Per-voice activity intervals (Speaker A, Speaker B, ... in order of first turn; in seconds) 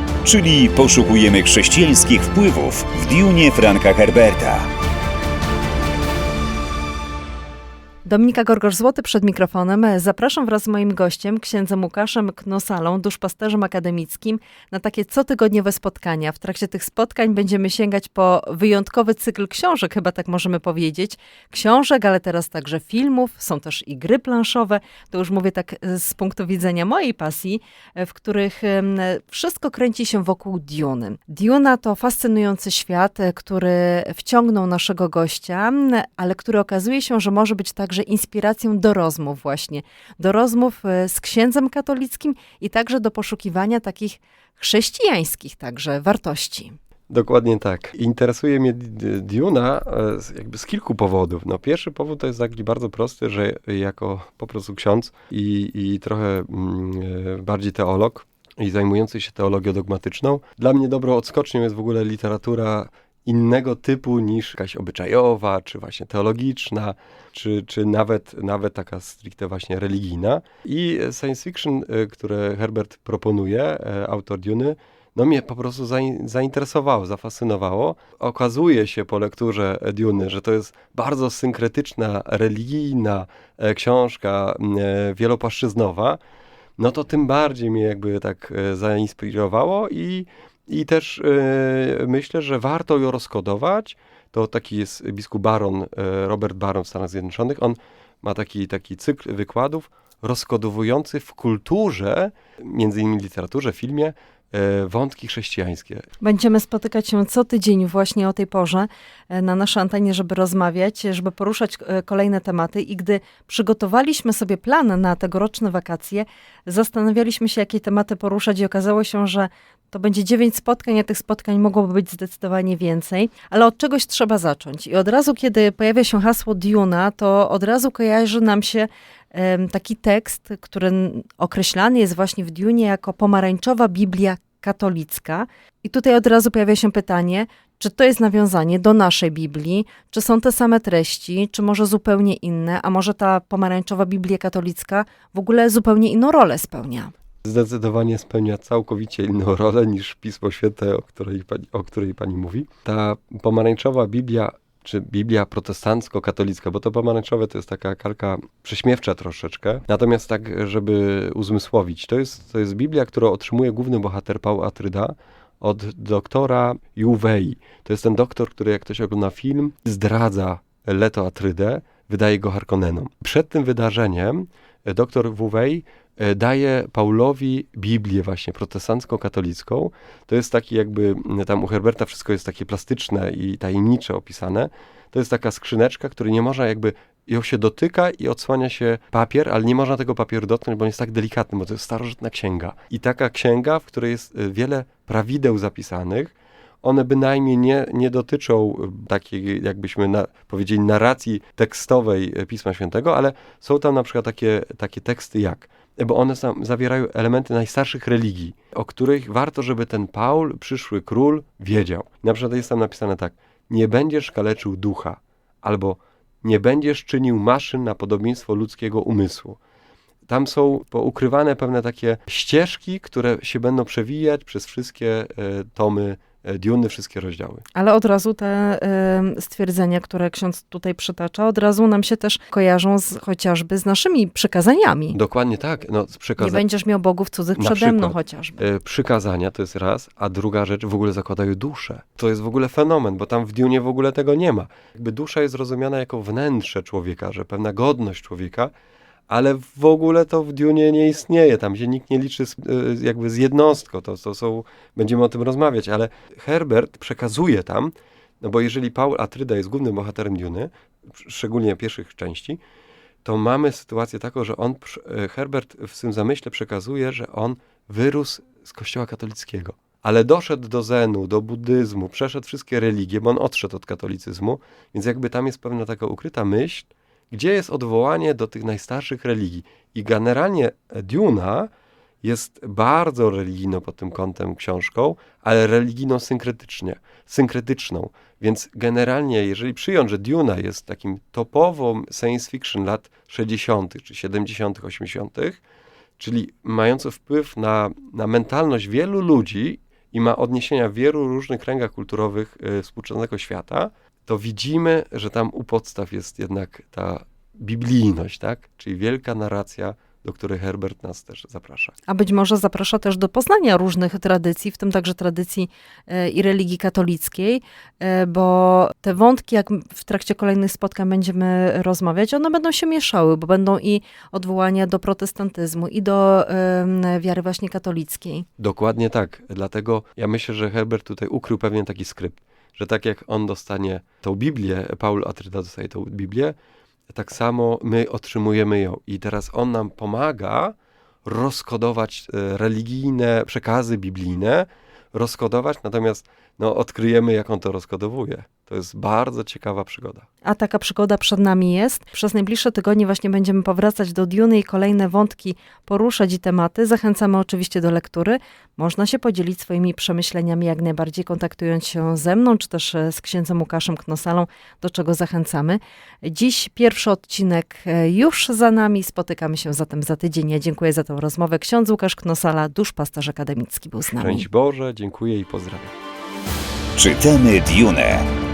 Speaker A: 0.2-4.7, 376.9-378.3
Speaker B: 8.1-46.8, 106.2-147.1, 227.7-235.2, 236.4-238.6, 312.1-328.4, 350.4-374.5
Speaker C: 47.1-86.2, 86.8-106.1, 147.4-219.6, 220.3-227.6, 235.1-236.6, 237.6-248.7, 249.3-262.6, 263.2-281.7, 282.2-295.6, 296.2-311.9, 328.6-336.5, 337.1-350.3, 374.1-375.9